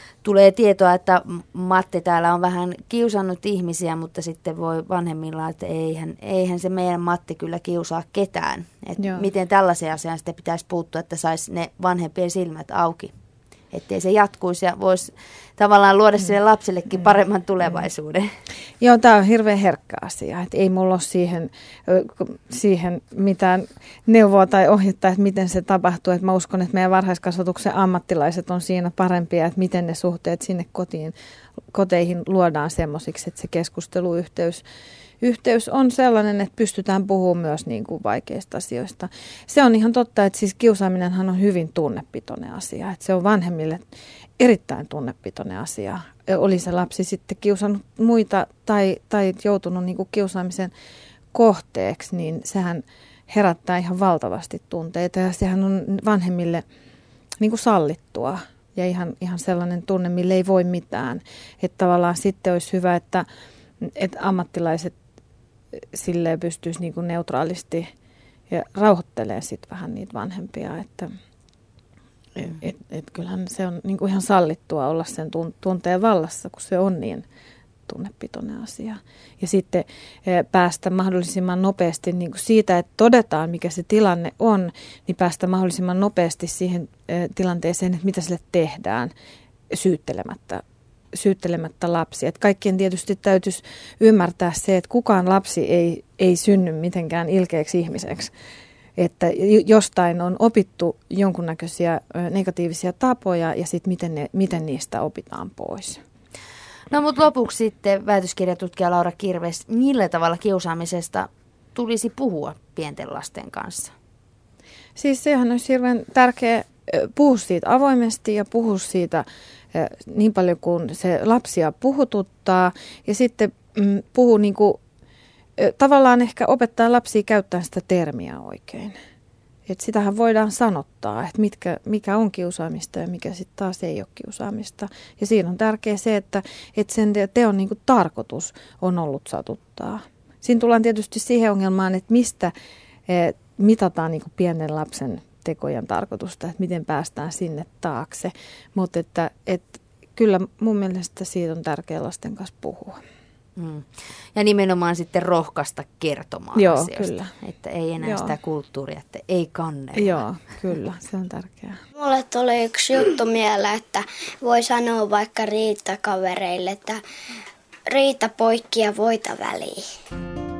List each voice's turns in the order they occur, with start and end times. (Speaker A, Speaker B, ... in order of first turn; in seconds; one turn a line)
Speaker A: 0.2-13.1
Speaker B: 9.0-9.3
Speaker A: 13.7-18.3
Speaker B: 18.8-31.1
Speaker B: 31.7-34.6
Speaker B: 35.2-43.8
Speaker B: 44.4-50.7
Speaker B: 51.3-56.6
Speaker B: 57.4-63.2
Speaker B: 63.8-64.9
Speaker B: 65.8-67.9
Speaker B: 68.5-71.1
Speaker B: 72.3-77.2
Speaker B: 77.9-89.1
Speaker B: 89.7-98.3
Speaker B: 99.0-106.0
Speaker A: 106.9-113.9
Speaker B: 115.0-124.8
Speaker B: 125.6-128.9
Speaker B: 129.7-142.5
Speaker B: 143.1-153.0
Speaker A: 153.6-160.2
Speaker B: 156.6-157.3
Speaker B: 158.0-158.3
Speaker B: 159.9-161.8
Speaker C: 161.9-167.0
Speaker C: 167.9-169.8